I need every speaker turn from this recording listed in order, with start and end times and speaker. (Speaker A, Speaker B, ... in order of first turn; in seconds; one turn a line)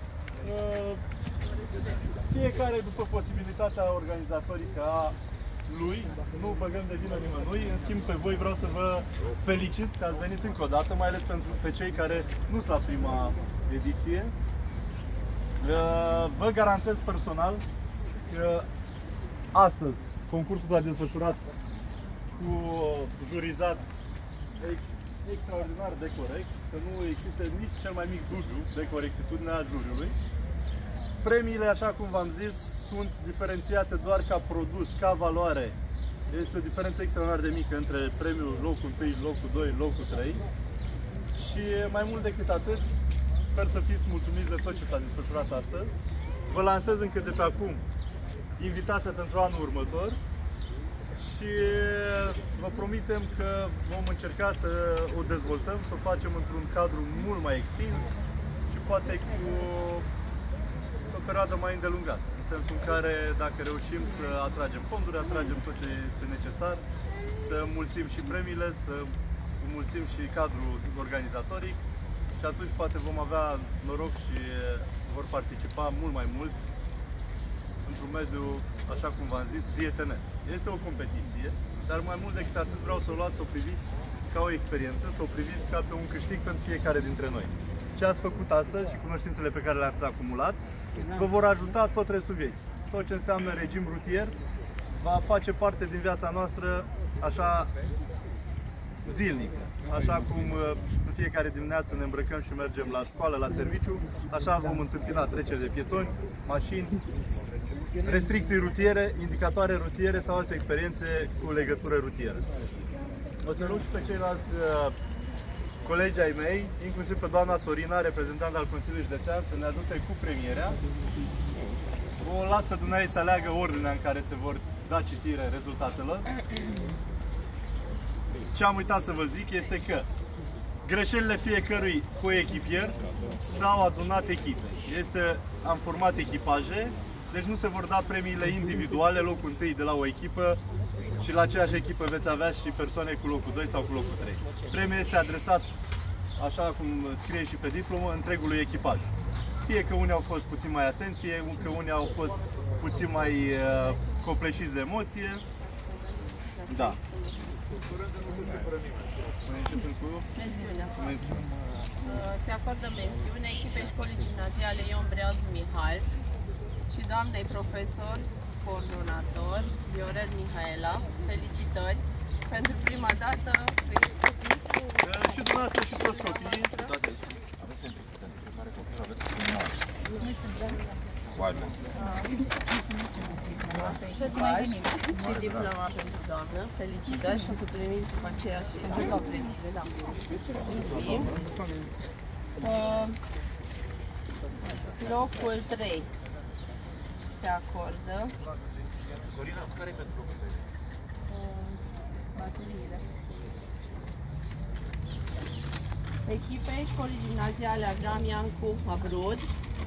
Speaker A: 0.4-1.0
Speaker A: 2.3-5.2
Speaker A: 5.7-14.3
Speaker A: 15.6-17.6
Speaker A: 18.3-18.7
Speaker A: 19.5-21.4
Speaker A: 22.4-23.8
Speaker A: 24.6-30.2
Speaker A: 31.2-35.8
Speaker A: 36.3-40.4
Speaker A: 41.4-42.9
Speaker A: 43.5-46.0
Speaker A: 46.5-47.8
Speaker A: 48.6-50.2
Speaker A: 51.1-58.1
Speaker A: 58.7-60.1
Speaker A: 61.1-66.8
Speaker A: 67.4-71.8
Speaker A: 72.4-76.7
Speaker A: 77.8-90.6
Speaker A: 91.1-94.3
Speaker A: 95.0-97.7
Speaker A: 99.0-107.0
Speaker A: 108.0-112.4
Speaker A: 113.4-115.0
Speaker A: 115.8-120.8
Speaker A: 122.2-126.3
Speaker A: 128.5-130.1
Speaker A: 130.8-140.6
Speaker A: 141.2-145.7
Speaker A: 146.4-149.1
Speaker A: 149.7-155.4
Speaker B: 156.6-157.4
Speaker A: 156.7-157.0
Speaker A: 159.4-160.3
Speaker B: 160.3-160.9
Speaker A: 161.0-161.4
Speaker B: 162.0-166.2
Speaker B: 166.9-174.7
Speaker A: 175.0-176.7
Speaker B: 175.8-177.0
Speaker C: 176.9-179.8
Speaker C: 181.4-181.7
Speaker B: 182.0-182.3
Speaker B: 183.6-190.0
Speaker A: 190.6-191.4
Speaker B: 190.6-191.3
Speaker B: 192.6-193.2
Speaker B: 194.9-196.1
Speaker B: 197.3-198.4
Speaker C: 199.3-200.6
Speaker B: 201.3-201.8
Speaker B: 202.3-203.0
Speaker B: 206.2-209.5